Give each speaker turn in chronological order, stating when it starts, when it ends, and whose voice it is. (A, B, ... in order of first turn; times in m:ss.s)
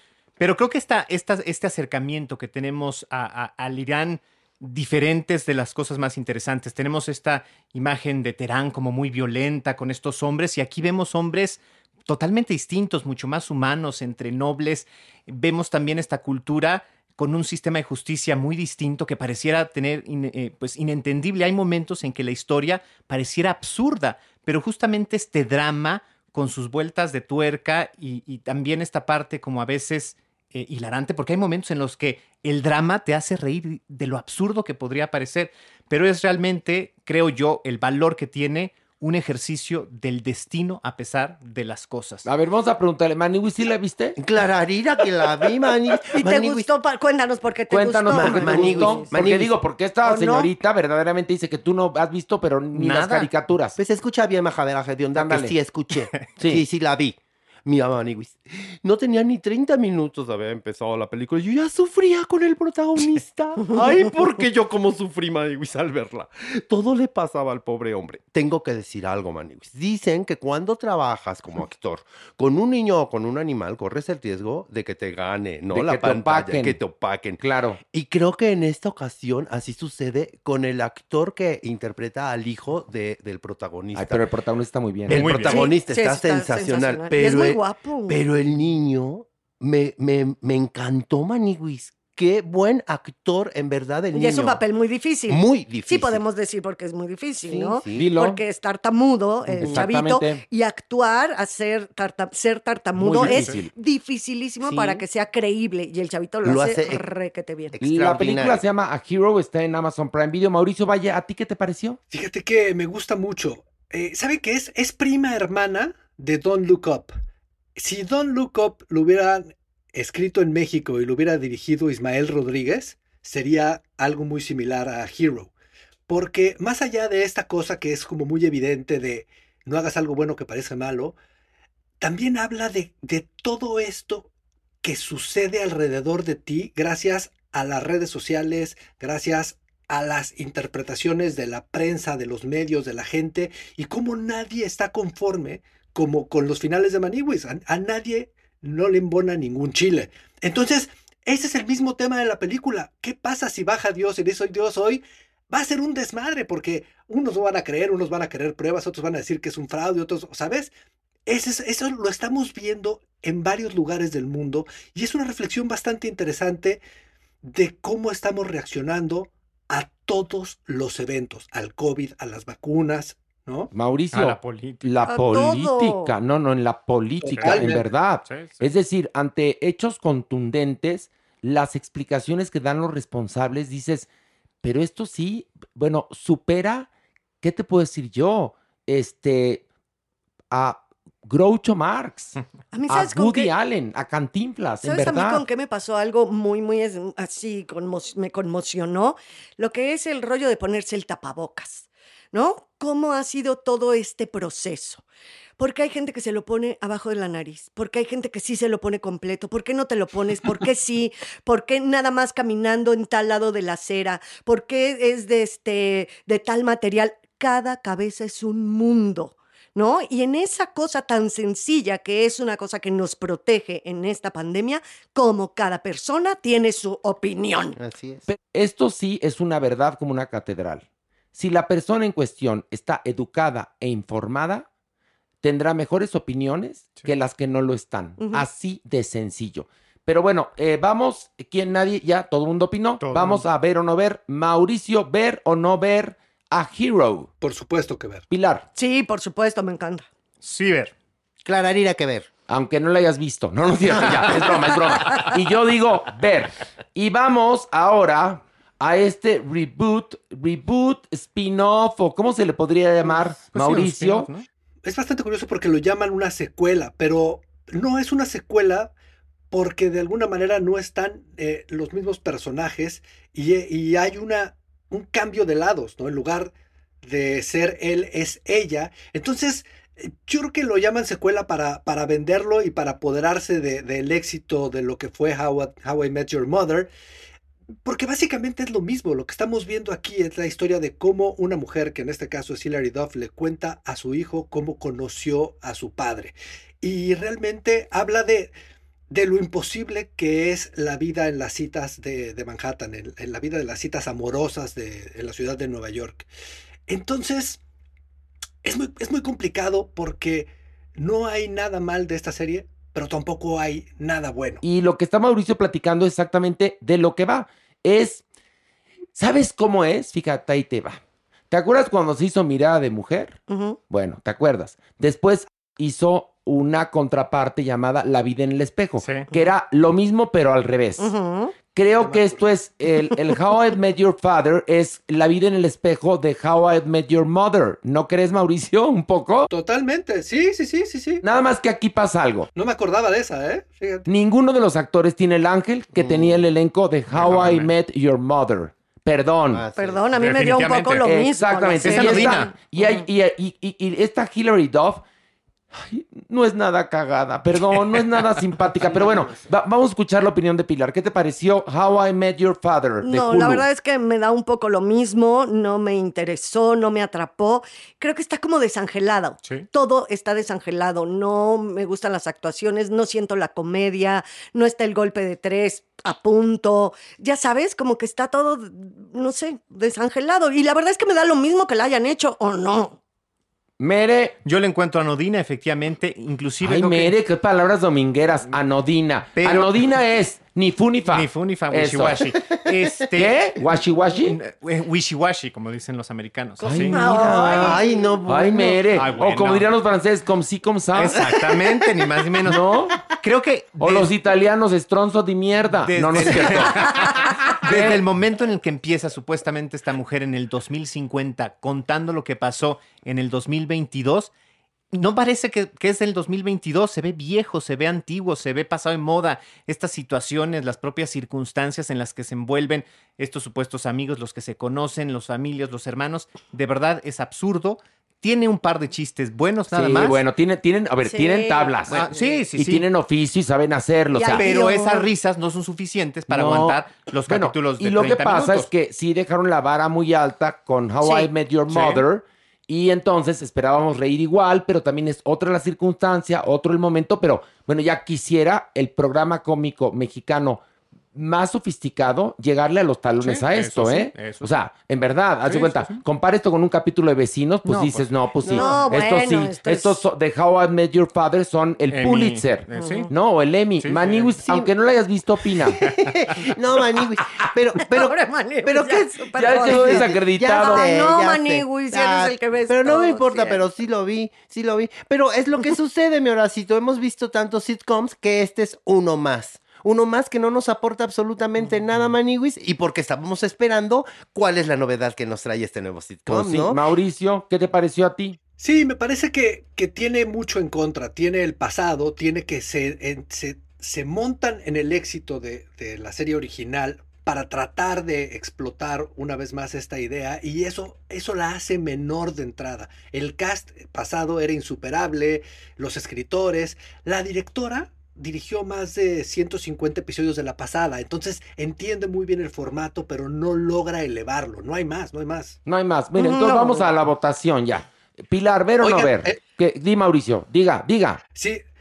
0:00.4-0:42.3 A
0:42.2-0:44.2 B
0:44.2-0:46.7 C
0:46.1-0:49.1 D
0:47.7-0:53.8 B
0:48.1-0:49.5 C
0:50.0-0:50.5 D
0:52.7-0:53.3 A
0:53.8-1:24.2 C
0:55.1-0:55.5 B
0:56.4-0:56.6 B
1:15.7-1:16.8 B
1:17.4-1:17.8 B
1:23.9-1:25.7 B
1:25.1-1:34.6 C
1:25.1-1:25.7 A
1:25.5-1:28.2 D
1:34.1-1:47.8 D
1:35.3-1:36.2 C
1:37.4-1:38.0 C
1:37.9-1:38.4 B
1:39.5-1:39.8 C
1:39.6-1:40.4 B
1:43.0-1:43.7 B
1:43.1-1:43.4 C
1:43.2-1:43.5 A
1:44.6-1:45.0 C
1:46.4-1:47.0 C
1:47.7-1:48.6 C
1:47.8-1:52.0 B
1:52.1-1:57.1 E
1:57.8-2:05.5 E
2:06.1-2:11.2 E
2:12.0-2:14.3 E
2:14.8-2:40.7 E
2:41.3-2:46.8 E
2:47.4-2:53.7 E
2:53.7-3:04.1 B
2:54.1-2:54.9 A
2:55.1-2:56.1 D
2:57.2-2:57.6 A
2:57.3-2:57.8 E
2:58.2-2:58.7 A
3:04.6-3:06.9 B
3:07.4-3:09.6 B
3:10.5-3:12.4 B
3:12.7-3:13.5 D
3:12.9-3:15.4 B
3:14.8-3:25.0 D
3:25.6-3:47.8 D
3:47.8-3:48.2 C
3:48.3-3:54.7 B
3:55.4-4:07.3 B
3:58.2-3:58.4 D
4:03.0-4:03.4 A
4:07.4-4:08.2 E
4:08.3-4:08.6 B
4:08.7-4:10.1 D
4:10.4-4:10.9 A
4:11.4-4:12.3 C
4:12.5-4:24.3 B
4:23.0-4:24.4 A
4:24.8-4:28.9 E
4:29.5-4:46.9 E
4:47.8-4:58.5 E
4:59.1-5:06.3 E
5:06.9-5:07.6 E
5:08.6-5:14.6 E
5:14.6-5:18.2 B
5:19.1-5:31.1 B
5:23.5-5:23.8 D
5:29.0-5:29.3 A
5:31.0-5:31.5 D
5:31.7-5:39.5 B
5:32.0-5:32.4 E
5:39.5-5:41.2 E
5:41.2-5:42.5 B
5:42.5-5:44.0 E
5:44.0-5:49.6 B
5:45.9-5:46.4 C
5:47.1-5:47.7 A
5:49.5-5:50.0 C
5:49.8-5:53.0 D
5:50.1-5:51.0 A
5:51.0-5:55.0 B
5:51.8-5:52.5 A
5:55.7-6:03.6 B
5:58.8-5:59.4 C
6:03.0-6:23.0 D
6:23.8-6:24.3 B
6:24.4-6:27.2 A
6:26.6-6:32.3 B
6:29.4-6:29.8 A
6:31.1-6:33.5 A
6:32.5-6:33.1 C
6:33.1-6:34.4 B
6:34.2-6:37.0 A
6:36.6-6:41.2 B
6:36.9-6:38.0 D
6:37.4-6:38.8 C
6:38.9-6:39.7 A
6:40.9-6:44.1 A
6:42.4-6:42.9 B
6:43.8-6:46.9 B
6:45.8-6:54.3 A
6:47.6-6:48.0 B
6:54.9-7:10.2 A
7:09.7-7:14.4 B
7:11.0-7:11.8 D
7:11.9-7:12.9 A
7:14.2-7:15.1 D
7:14.4-7:18.7 A
7:16.3-7:30.6 B
7:21.7-7:22.0 A
7:31.1-7:45.8 B
7:33.2-7:34.5 A
7:35.4-7:36.0 A
7:37.6-7:38.1 A
7:38.4-7:38.8 C
7:38.5-7:40.0 D
7:41.9-7:43.1 A
7:42.7-7:43.1 D
7:43.8-7:44.4 A
7:45.8-8:06.8 C
7:47.8-7:53.6 D
7:49.3-7:50.9 B
8:06.3-8:08.4 B
8:08.6-8:35.6 E
8:35.6-8:41.2 B
8:36.2-8:36.8 D
8:38.8-8:39.4 E
8:41.3-8:41.6 E